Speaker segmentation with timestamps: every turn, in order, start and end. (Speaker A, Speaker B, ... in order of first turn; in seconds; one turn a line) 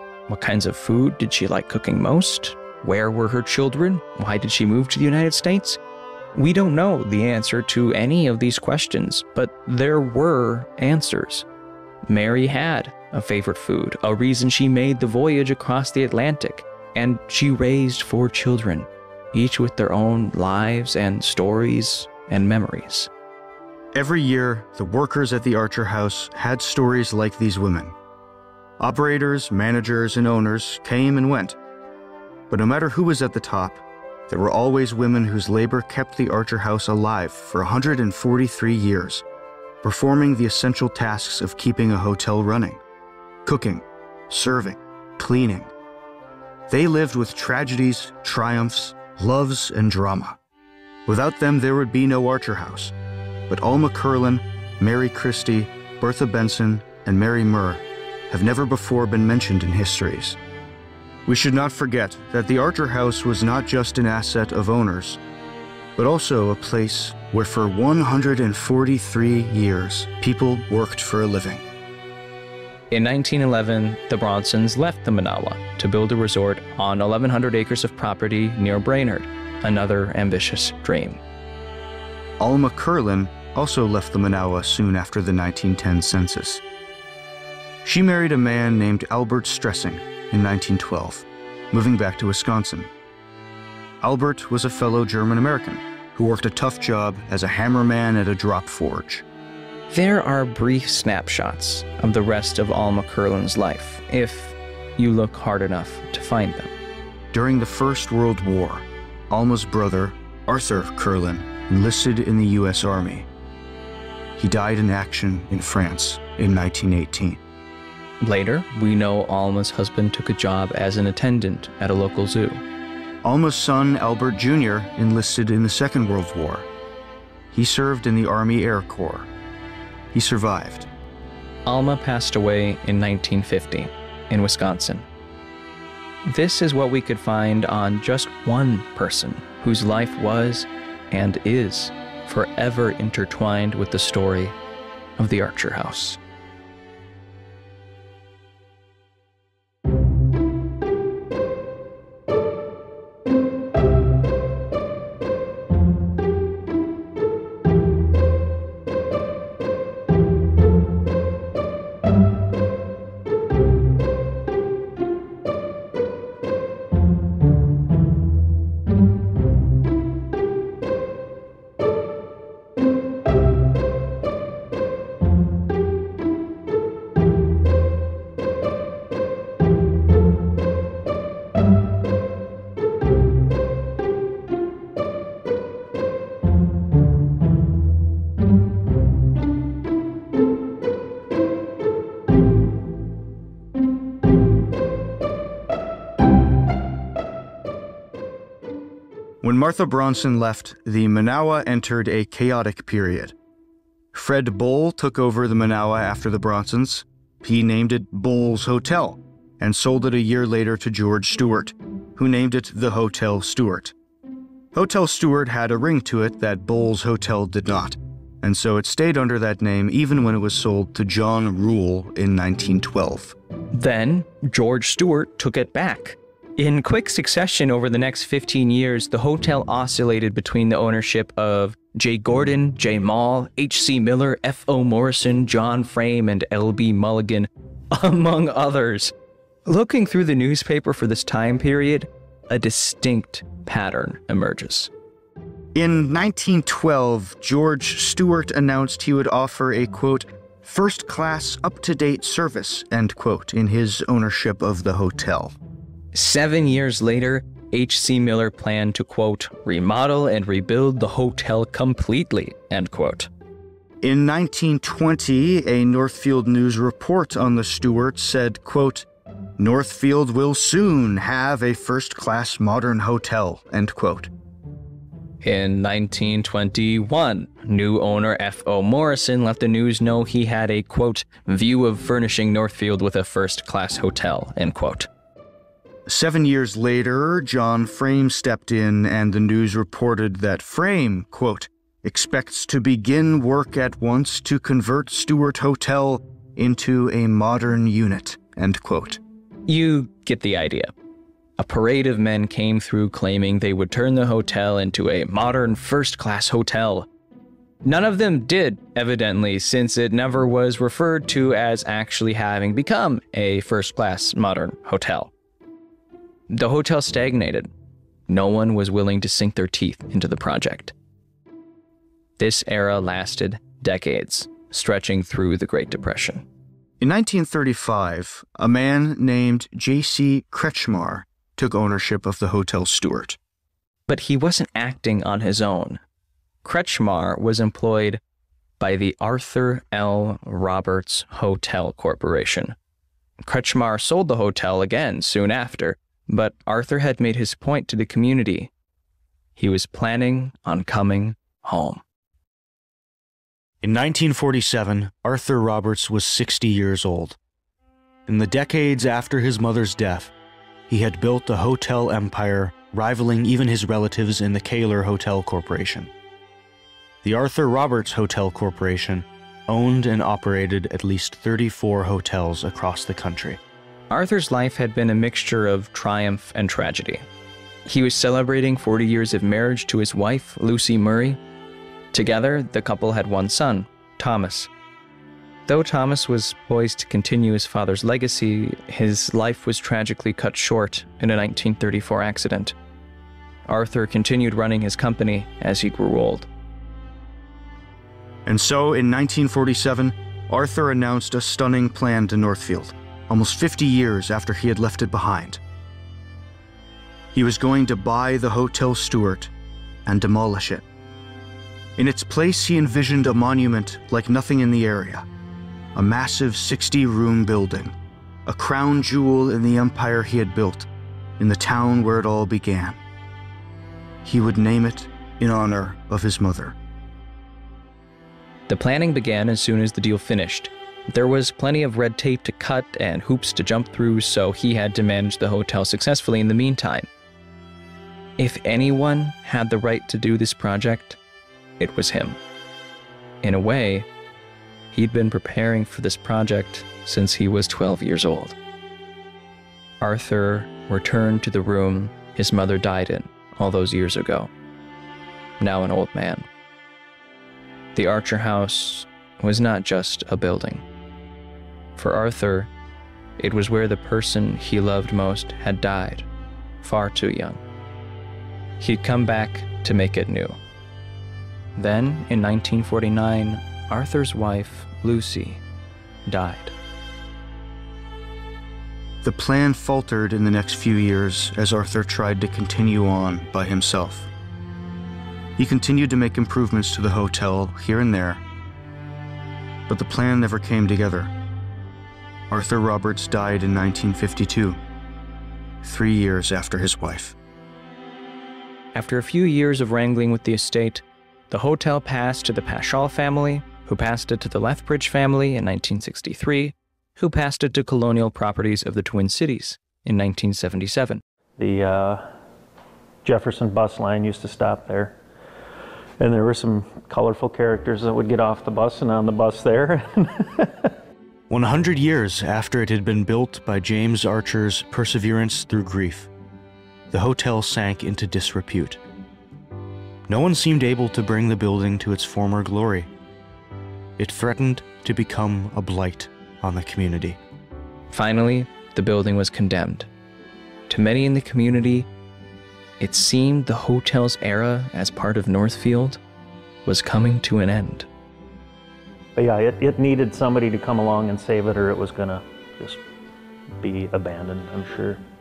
Speaker A: 0.3-5.8
Speaker A: 6.3-11.4
Speaker A: 12.1-23.1
Speaker B: 23.9-27.9
Speaker B: 28.8-31.6
Speaker B: 32.5-39.2
Speaker B: 39.8-42.8
Speaker B: 43.4-45.7
Speaker B: 46.7-50.4
Speaker B: 51.0-52.9
Speaker B: 53.5-60.4
Speaker B: 61.2-65.2
Speaker B: 66.0-71.6
Speaker A: 72.9-81.2
Speaker B: 82.4-86.6
Speaker B: 87.8-92.9
Speaker B: 94.0-99.2
Speaker A: 99.9-106.7
Speaker B: 107.3-113.3
Speaker B: 114.4-117.4
Speaker A: 118.2-122.6
Speaker B: 123.2-126.7
Speaker B: 127.5-129.3
Speaker B: 130.1-130.9
Speaker A: 131.7-135.1
Speaker A: 136.2-144.6
Speaker A: 145.2-146.2
Speaker B: 199.4-203.3
Speaker B: 204.1-213.9
Speaker B: 214.7-223.3
Speaker A: 223.7-239.1
Speaker A: 239.7-244.9
Speaker B: 245.7-255.6
Speaker A: 256.1-263.3
Speaker B: 264.0-269.1
Speaker B: 269.6-274.3
Speaker A: 275.4-285.1
Speaker B: 286.1-299.2
Speaker A: 299.7-300.9
Speaker A: 301.6-307.1
Speaker A: 307.8-315.3
Speaker A: 316.5-317.7
Speaker A: 318.3-320.9
Speaker A: 322.4-326.4
Speaker B: 327.0-333.4
Speaker A: 334.1-336.0
Speaker A: 336.6-338.2
Speaker A: 338.8-342.8
Speaker A: 343.4-348.7
Speaker A: 349.6-352.0
Speaker B: 353.8-357.4
Speaker B: 358.3-360.3
Speaker B: 360.9-366.1
Speaker B: 367.2-373.6
Speaker A: 374.1-377.2
Speaker A: 377.8-381.4
Speaker A: 382.1-384.7
Speaker A: 385.7-392.7
Speaker A: 393.7-396.5
Speaker B: 398.4-405.6
Speaker B: 407.3-409.5
Speaker B: 410.1-410.8
Speaker B: 412.0-415.3
Speaker B: 415.9-423.0
Speaker B: 424.2-426.8
Speaker A: 428.7-437.1
Speaker A: 438.4-441.2
Speaker A: 441.8-442.4
Speaker A: 443.4-444.1
Speaker A: 444.9-448.6
Speaker A: 450.0-454.5
Speaker A: 455.6-456.5
Speaker A: 457.9-460.8
Speaker A: 461.9-462.7
Speaker A: 463.4-466.3
Speaker A: 466.8-467.6
Speaker A: 468.8-470.6
Speaker A: 471.8-475.6
Speaker A: 476.2-476.7
Speaker B: 479.2-484.3
Speaker B: 485.6-488.4
Speaker B: 489.9-491.3
Speaker B: 492.5-494.8
Speaker B: 495.8-497.4
Speaker A: 498.9-511.2
Speaker C: 511.6-512.3
Speaker C: 513.2-515.2
Speaker C: 516.2-520.9
Speaker B: 521.5-526.3
Speaker B: 527.1-529.0
Speaker B: 530.3-533.1
Speaker B: 534.2-537.4
Speaker A: 538.1-540.1
Speaker A: 540.9-542.1
Speaker A: 543.0-546.2
Speaker A: 546.8-548.1
Speaker C: 549.4-553.0
Speaker C: 553.8-555.2